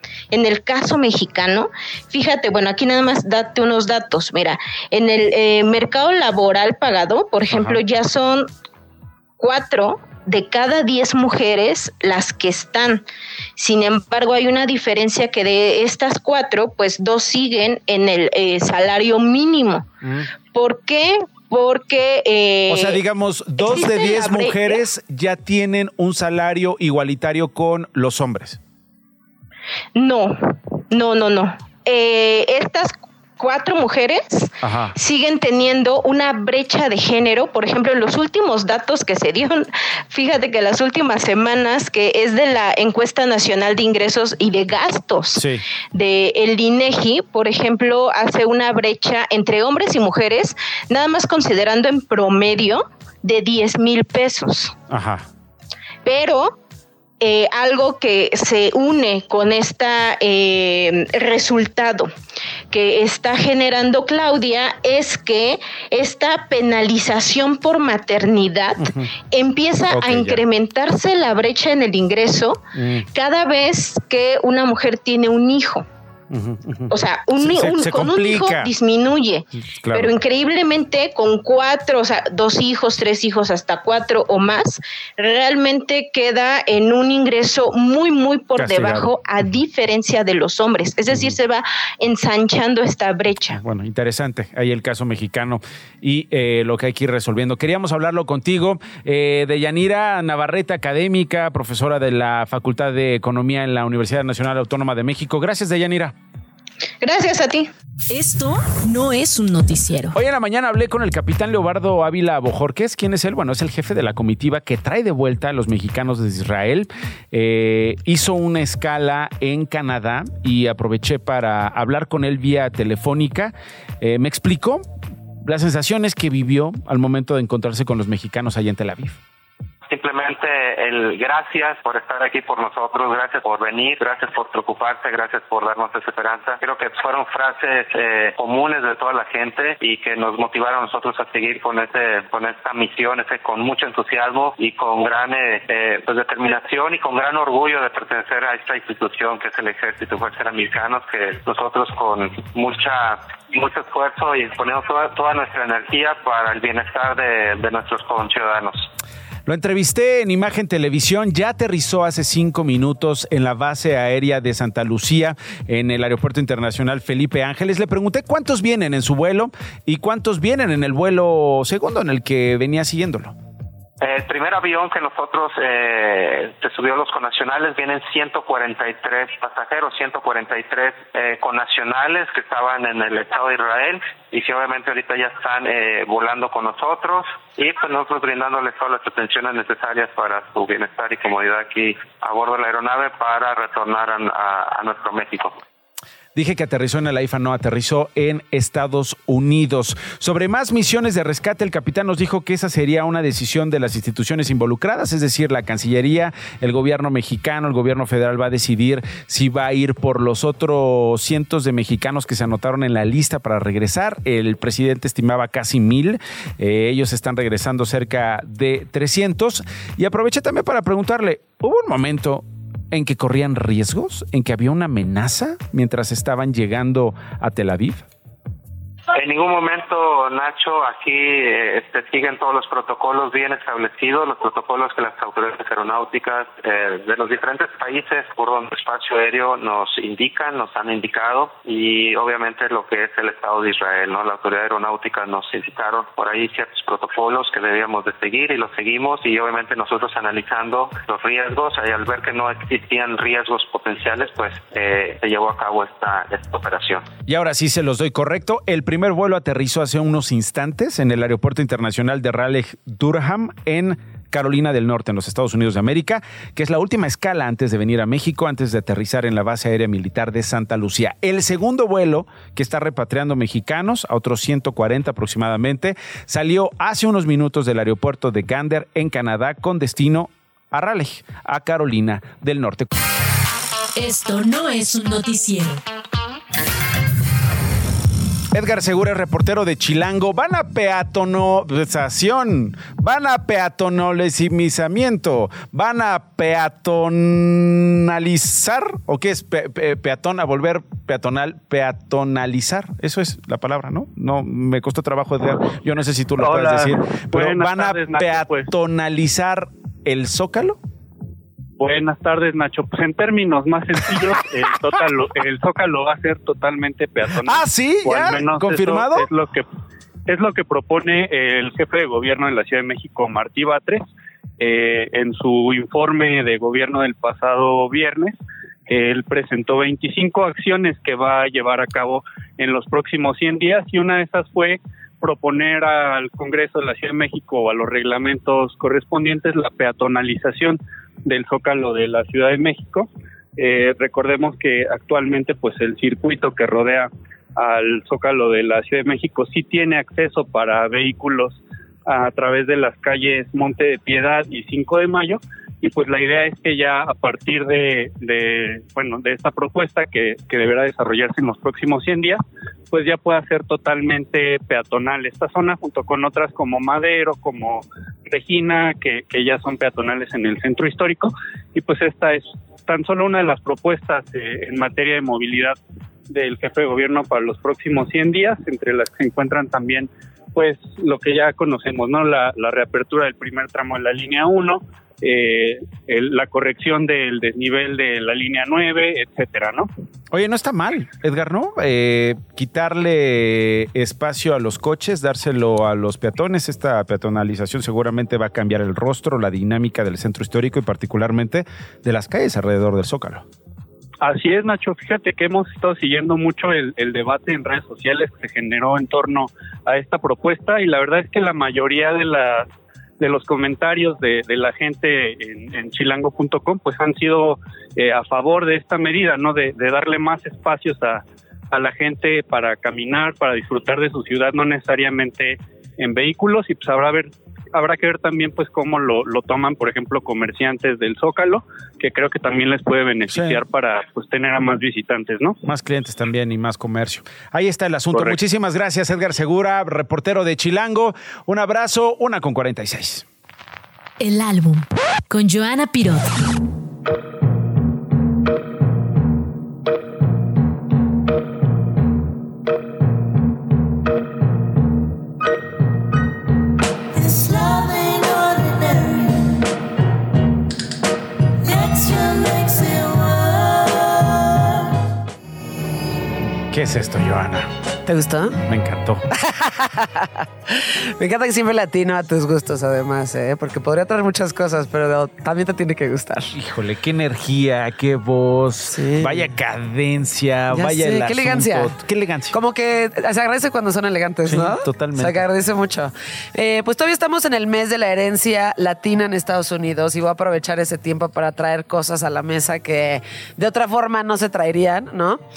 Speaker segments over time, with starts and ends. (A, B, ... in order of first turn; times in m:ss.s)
0:00.3-0:08.5 A
0:07.5-0:07.8 B
0:09.4-0:13.0 A
0:13.6-0:19.9 A
0:20.0-0:20.3 B
0:20.5-0:23.0 A
0:22.7-0:28.6 B
0:23.6-0:24.8 A
0:29.9-0:54.8 A
0:34.6-0:34.9 B
0:45.3-0:45.6 B
0:54.9-0:55.2 B
0:56.0-0:56.6 A
0:57.2-1:02.1 A
1:02.7-1:15.8 A
1:08.8-1:09.1 B
1:09.9-1:10.4 B
1:12.8-1:13.0 B
1:16.3-1:18.7 B
1:16.9-1:33.6 A
1:19.6-1:20.1 B
1:28.6-1:29.5 B
1:33.5-1:46.1 B
1:47.0-1:47.7 A
1:48.1-1:50.2 C
1:50.1-2:04.8 B
2:05.4-2:09.2 B
2:09.9-2:38.9 D
2:39.5-2:53.3 B
2:54.0-3:15.6 D
3:16.3-3:48.0 B
3:49.1-4:17.1 D
4:17.3-4:42.9 B
4:44.0-4:45.8 C
4:48.5-5:10.8 B
5:06.4-5:08.7 E
5:11.8-5:19.6 E
5:17.4-5:19.3 B
5:20.3-5:24.1 E
5:24.6-6:02.4 E
6:02.9-6:15.8 E
6:16.3-6:29.9 E
6:30.3-6:43.4 B
6:44.2-6:52.7 E
6:53.2-7:15.6 E
7:13.3-7:13.6 B
7:15.6-7:23.2 B
7:24.2-7:26.3 C
7:41.9-7:42.5 C
7:46.7-7:47.7 B
7:48.0-7:48.6 F
7:48.6-7:49.2 B
7:49.3-7:56.5 F
7:56.5-8:02.6 B
7:58.9-7:59.5 F
8:00.7-8:02.0 F
8:02.5-8:15.4 F
8:04.4-8:05.4 B